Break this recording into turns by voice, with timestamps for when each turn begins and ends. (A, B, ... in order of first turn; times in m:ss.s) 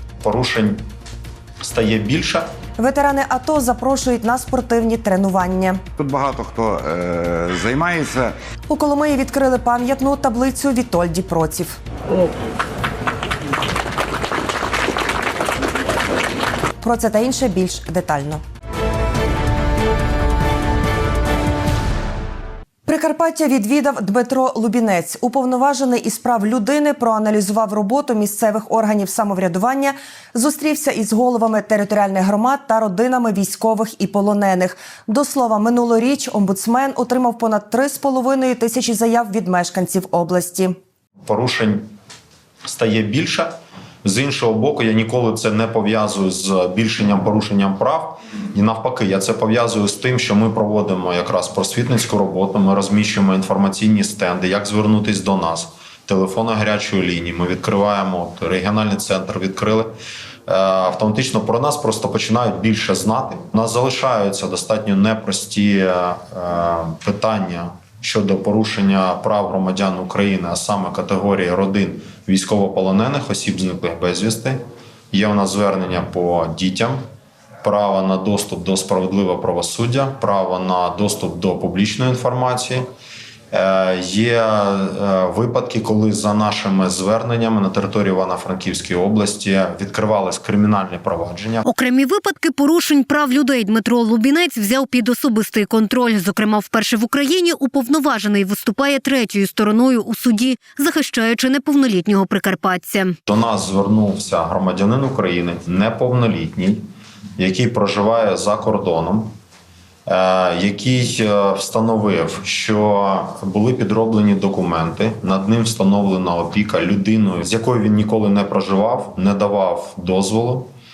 0:00.2-0:00.8 A
0:01.6-0:02.5 A
0:02.8-0:05.8 B
0:06.0-0:08.3 C
0:08.7-0:11.8 B
0:16.8-0:18.4 B
0:22.9-0:40.8 B
0:41.2-0:41.8 A
0:42.6-0:43.5 A
0:44.0-0:59.9 A
1:00.5-1:14.6 A
1:15.1-1:17.0 A
1:17.6-1:22.8 A
1:23.5-1:31.6 A
1:31.6-1:43.2 D
1:43.2-1:46.8 A
1:47.4-1:49.3 A
1:50.1-2:00.7 A